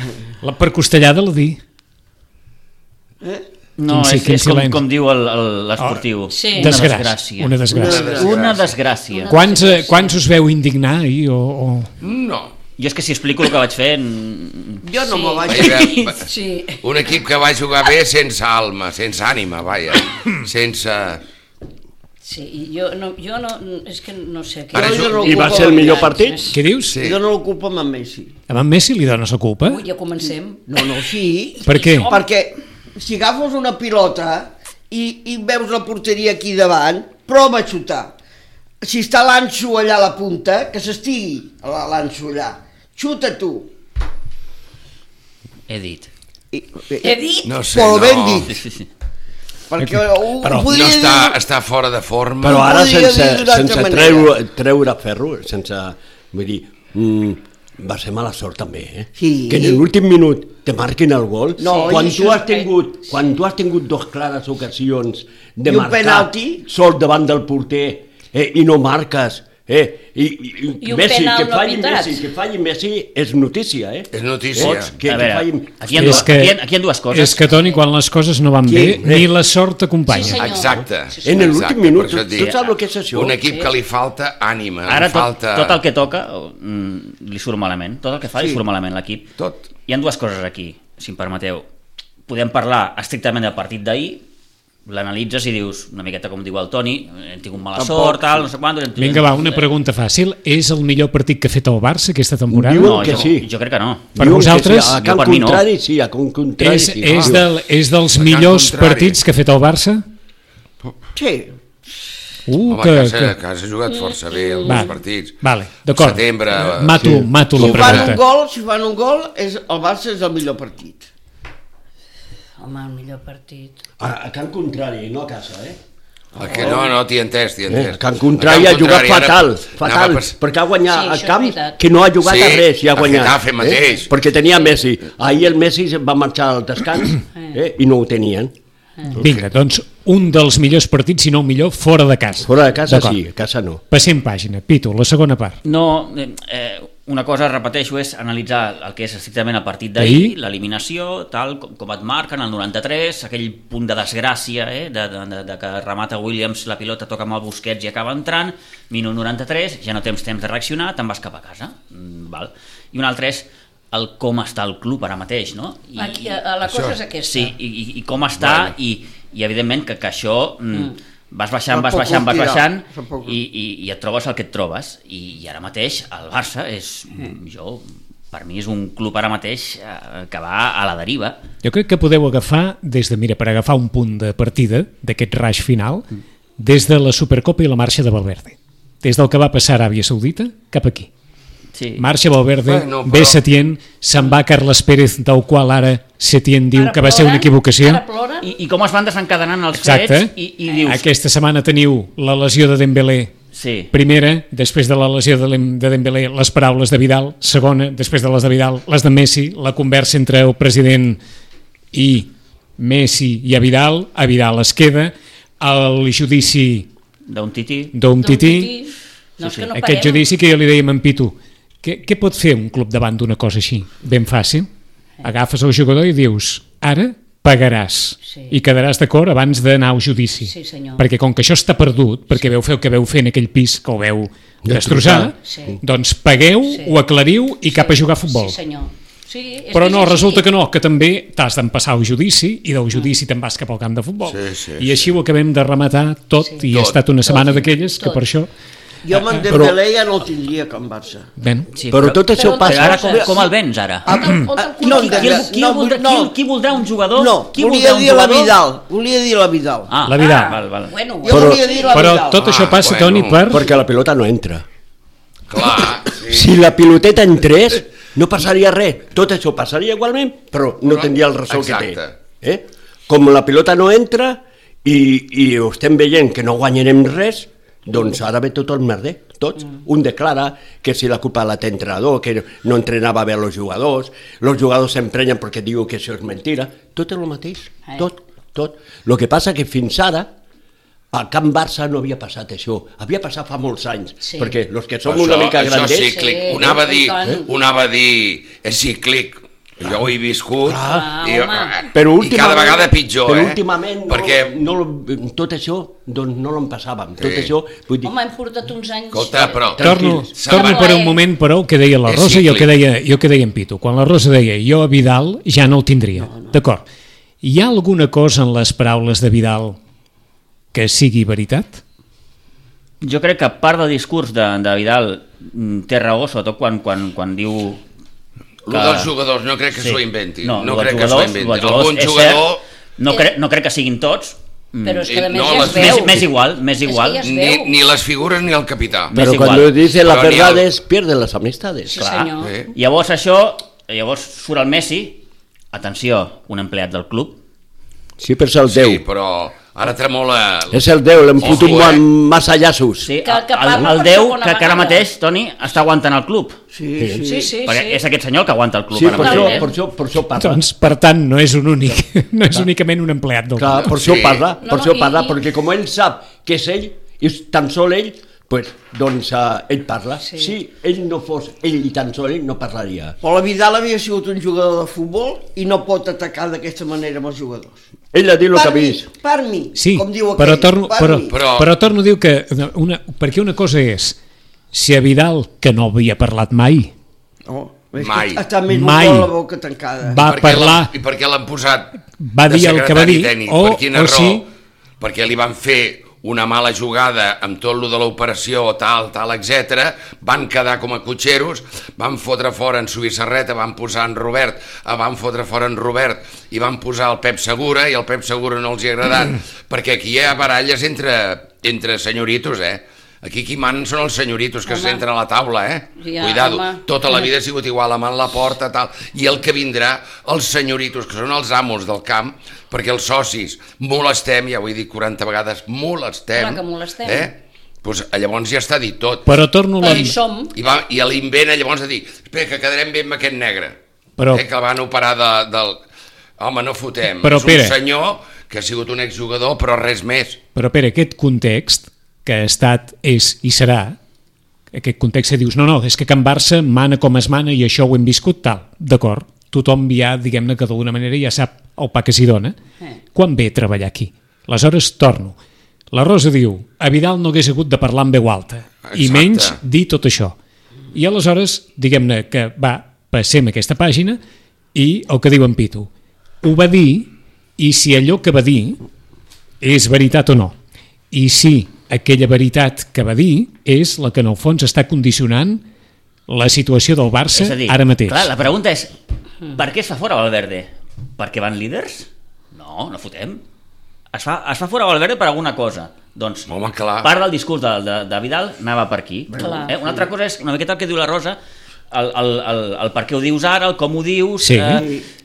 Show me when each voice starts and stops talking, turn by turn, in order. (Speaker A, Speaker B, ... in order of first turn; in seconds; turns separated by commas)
Speaker A: 0.4-1.6, Speaker B: 3.8-9.3, Speaker A: 3.9-4.8, Speaker A: 5.8-8.2, Speaker C: 6.3-6.9, Speaker D: 7.7-8.4, Speaker E: 7.7-8.7, Speaker C: 9.1-10.2, Speaker A: 9.3-11.9, Speaker E: 12.0-12.5, Speaker B: 12.8-14.8, Speaker D: 14.8-15.9, Speaker C: 15.0-16.8, Speaker E: 15.4-16.3, Speaker E: 16.8-21.2, Speaker C: 22.2-26.6, Speaker E: 24.7-25.4, Speaker D: 24.7-26.1, Speaker F: 25.2-26.5, Speaker A: 26.5-27.0, Speaker E: 26.9-27.2, Speaker D: 26.9-28.4, Speaker A: 28.5-29.8, Speaker C: 29.6-30.8, Speaker D: 30.7-38.1, Speaker C: 31.6-32.2, Speaker A: 31.6-32.1, Speaker D: 38.8-43.7, Speaker B: 45.7-46.1, Speaker D: 46.5-48.6, Speaker C: 47.0-47.5, Speaker E: 47.4-48.5, Speaker B: 48.5-48.9, Speaker D: 49.7-51.4, Speaker A: 49.8-50.7, Speaker E: 50.7-52.7, Speaker F: 52.4-76.3, Speaker D: 52.4-54.3, Speaker D: 59.2-59.8, Speaker D: 61.6-62.7, Speaker C: 61.6-62.6, Speaker D: 65.7-66.6, Speaker C: 70.8-72.2, Speaker E: 74.1-74.9, Speaker B: 74.6-77.5, Speaker A: 76.0-76.6, Speaker A: 77.1-80.5, Speaker C: 77.5-77.8, Speaker F: 78.7-79.3, Speaker C: 80.0-81.8, Speaker E: 80.3-82.5, Speaker F: 80.6-83.4, Speaker B: 82.4-82.7, Speaker E: 83.1-85.8, Speaker C: 83.4-83.7, Speaker B: 84.9-89.3, Speaker E: 89.4-89.6, Speaker B: 89.9-91.7, Speaker B: 92.3-94.2, Speaker B: 94.9-99.7, Speaker D: 97.7-98.4, Speaker A: 99.0-103.0, Speaker F: 102.5-103.5, Speaker B: 102.8-104.1, Speaker F: 104.2-107.5, Speaker A: 104.2-105.0, Speaker B: 104.9-105.6, Speaker A: 106.6-110.0, Speaker E: 108.1-109.2, Speaker D: 111.1-111.5, Speaker A: 112.5-113.3, Speaker E: 112.7-118.2, Speaker C: 113.9-114.9, Speaker A: 114.7-118.2, Speaker F: 117.0-117.3, Speaker D: 117.5-121.1, Speaker C: 122.6-123.8, Speaker F: 124.0-125.8, Speaker E: 126.3-130.3, Speaker C: 126.4-126.8, Speaker D: 126.5-126.9, Speaker F: 127.7-138.5, Speaker C: 130.9-131.8, Speaker E: 132.2-134.1, Speaker C: 137.3-137.6, Speaker A: 139.1-143.2, Speaker E: 139.1-139.4, Speaker F: 142.4-143.8, Speaker A: 143.9-145.6, Speaker B: 145.6-166.4, Speaker A: 150.0-150.3, Speaker C: 165.9-167.5, Speaker E: 166.7-167.0, Speaker B: 167.2-181.4, Speaker E: 168.4-168.7, Speaker D: 171.7-173.4, Speaker A: 181.6-191.1, Speaker B: 191.7-192.0, Speaker A: 192.0-198.0, Speaker E: 192.6-193.4, Speaker C: 196.7-198.5, Speaker B: 198.4-201.1, Speaker A: 199.7-203.3, Speaker C: 200.7-201.1, Speaker B: 203.5-203.9, Speaker A: 203.9-211.2, Speaker A: 211.9-216.9, Speaker B: 217.3-217.9, Speaker A: 217.9-218.7, Speaker C: 218.2-220.3, Speaker B: 219.4-219.7, Speaker A: 219.7-224.7, Speaker A: 225.2-238.6, Speaker C: 228.2-228.5, Speaker C: 230.4-231.0, Speaker F: 234.6-235.7, Speaker C: 235.4-235.8, Speaker C: 236.6-237.0, Speaker C: 237.6-240.5, Speaker A: 239.7-248.5, Speaker E: 244.2-245.1, Speaker C: 246.4-246.7, Speaker E: 246.7-247.0, Speaker C: 247.2-248.2, Speaker D: 249.0-251.3, Speaker F: 249.5-249.8, Speaker A: 251.4-251.7, Speaker B: 251.8-254.2, Speaker F: 251.9-253.1, Speaker C: 252.3-253.5, Speaker D: 252.9-253.4, Speaker C: 254.0-255.5, Speaker D: 254.0-256.3, Speaker B: 254.8-258.6, Speaker D: 257.1-259.9, Speaker B: 259.9-260.9, Speaker A: 260.1-260.6, Speaker C: 260.2-262.2, Speaker D: 261.2-262.5, Speaker F: 261.3-261.7, Speaker A: 261.9-263.7, Speaker E: 262.4-263.6, Speaker F: 263.5-264.6, Speaker E: 265.5-266.5, Speaker F: 266.1-290.3, Speaker E: 270.8-272.1, Speaker F: 291.1-296.8, Speaker C: 294.2-294.6, Speaker E: 295.0-304.5, Speaker C: 295.9-297.4, Speaker F: 300.6-301.1, Speaker C: 300.8-301.9, Speaker F: 301.9-308.1, Speaker E: 307.2-307.5, Speaker C: 308.0-309.8, Speaker E: 309.1-310.9, Speaker F: 309.8-310.4, Speaker A: 309.8-316.8, Speaker C: 310.5-311.2, Speaker E: 312.0-312.7, Speaker A: 317.4-319.8, Speaker A: 320.7-321.8, Speaker B: 323.0-327.8, Speaker E: 328.6-332.6, Speaker B: 328.7-329.1, Speaker B: 329.8-337.2, Speaker C: 334.8-336.2, Speaker E: 335.1-336.2, Speaker C: 336.8-337.8, Speaker E: 337.2-339.1, Speaker B: 339.1-339.8, Speaker F: 339.1-342.0, Speaker E: 339.9-340.7, Speaker C: 341.9-342.6, Speaker B: 341.9-347.4, Speaker E: 342.4-342.7, Speaker F: 348.2-349.0, Speaker E: 348.7-352.0, Speaker F: 350.7-353.1, Speaker B: 353.0-356.6, Speaker C: 353.1-355.1, Speaker D: 356.7-357.5, Speaker F: 357.0-357.3, Speaker C: 357.2-358.0, Speaker B: 357.6-359.7, Speaker F: 358.9-360.6, Speaker C: 359.1-359.8, Speaker A: 360.4-363.9, Speaker F: 363.6-373.1, Speaker E: 363.8-364.5, Speaker C: 364.6-365.4, Speaker C: 370.2-370.6, Speaker D: 373.2-377.8, Speaker F: 378.1-379.1, Speaker D: 378.5-381.4, Speaker A: 379.8-384.2, Speaker E: 381.3-381.8, Speaker A: 384.7-386.9, Speaker D: 387.5-390.2, Speaker E: 388.0-388.4, Speaker A: 388.7-389.3, Speaker A: 390.0-390.9, Speaker E: 390.2-394.4, Speaker A: 392.2-394.4, Speaker E: 395.0-433.8, Speaker C: 414.7-415.0, Speaker C: 416.0-417.3, Speaker C: 426.3-427.3, Speaker A: 429.2-430.2, Speaker C: 429.8-430.6, Speaker A: 434.2-434.4, Speaker E: 434.3-435.8, Speaker E: 436.4-440.4, Speaker A: 437.2-437.8, Speaker A: 440.5-444.0, Speaker A: 444.7-452.6, Speaker A: 453.1-455.4, Speaker A: 455.9-460.4, Speaker E: 458.8-459.6, Speaker A: 460.9-464.2, Speaker A: 464.7-465.9, Speaker A: 466.4-468.8, Speaker A: 469.6-470.5, Speaker A: 471.1-475.6, Speaker A: 476.3-478.3, Speaker B: 477.3-478.9, Speaker B: 479.5-483.4, Speaker B: 484.1-486.5, Speaker E: 486.5-487.1, Speaker B: 487.0-491.4, Speaker D: 489.3-490.0, Speaker C: 489.4-489.8, Speaker B: 491.9-494.9, Speaker A: 494.4-494.9, Speaker D: 494.7-495.1